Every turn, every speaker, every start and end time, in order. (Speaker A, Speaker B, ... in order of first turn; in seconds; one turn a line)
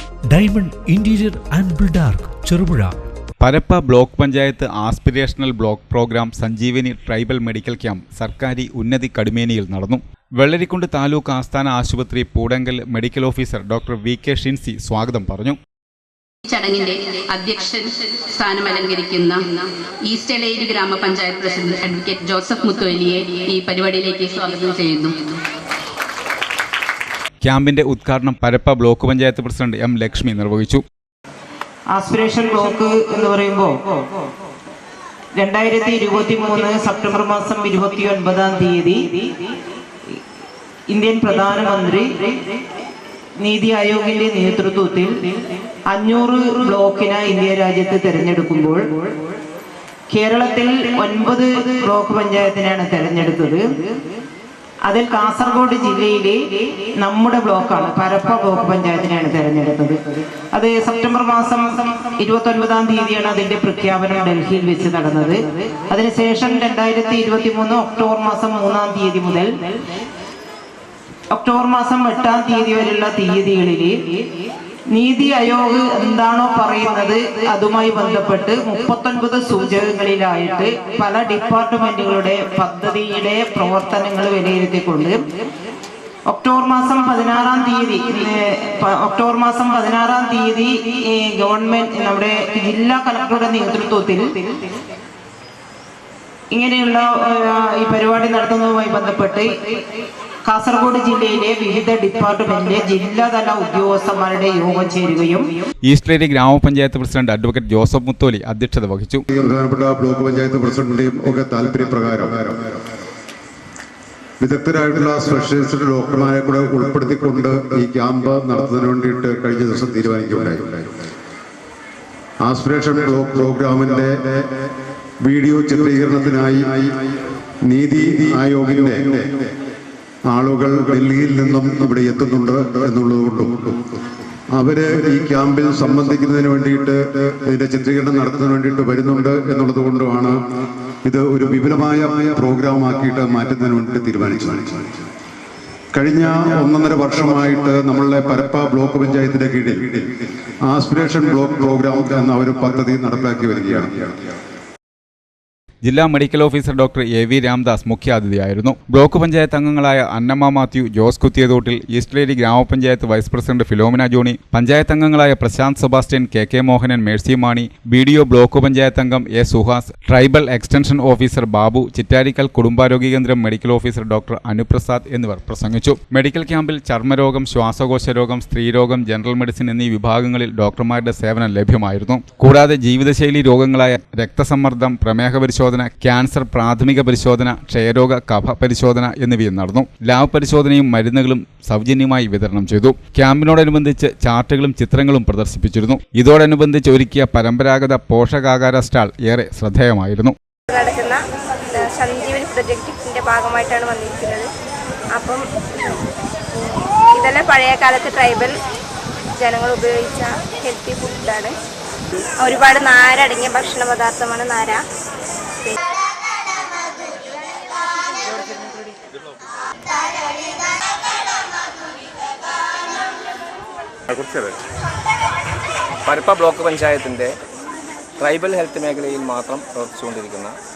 Speaker A: 0.3-2.9
Speaker B: 3.4-15.6
Speaker C: 16.4-25.4
Speaker B: 27.4-30.8
Speaker D: 31.9-34.0
Speaker D: 35.4-39.5
Speaker D: 40.9-42.4
Speaker D: 43.4-45.2
Speaker D: 45.9-49.1
Speaker D: 50.1-53.9
Speaker D: 54.9-69.6
Speaker D: 71.3-74.0
Speaker D: 74.9-85.2
Speaker D: 86.3-94.5
Speaker D: 96.5-99.8
Speaker D: 100.4-105.5
Speaker B: 105.8-109.2
Speaker E: 109.3-112.8
Speaker E: 114.4-120.9
Speaker E: 122.4-124.5
Speaker E: 125.2-126.9
Speaker E: 127.6-129.4
Speaker E: 130.3-133.8
Speaker E: 134.5-140.5
Speaker E: 141.0-144.9
Speaker E: 145.9-154.2
Speaker B: 155.8-200.3
Speaker F: 200.7-204.5
Speaker F: 205.1-208.6
Speaker F: 209.3-211.6
Speaker F: 212.4-214.8
Speaker G: 224.1-224.5
Speaker G: 226.1-227.4
Speaker G: 228.2-230.6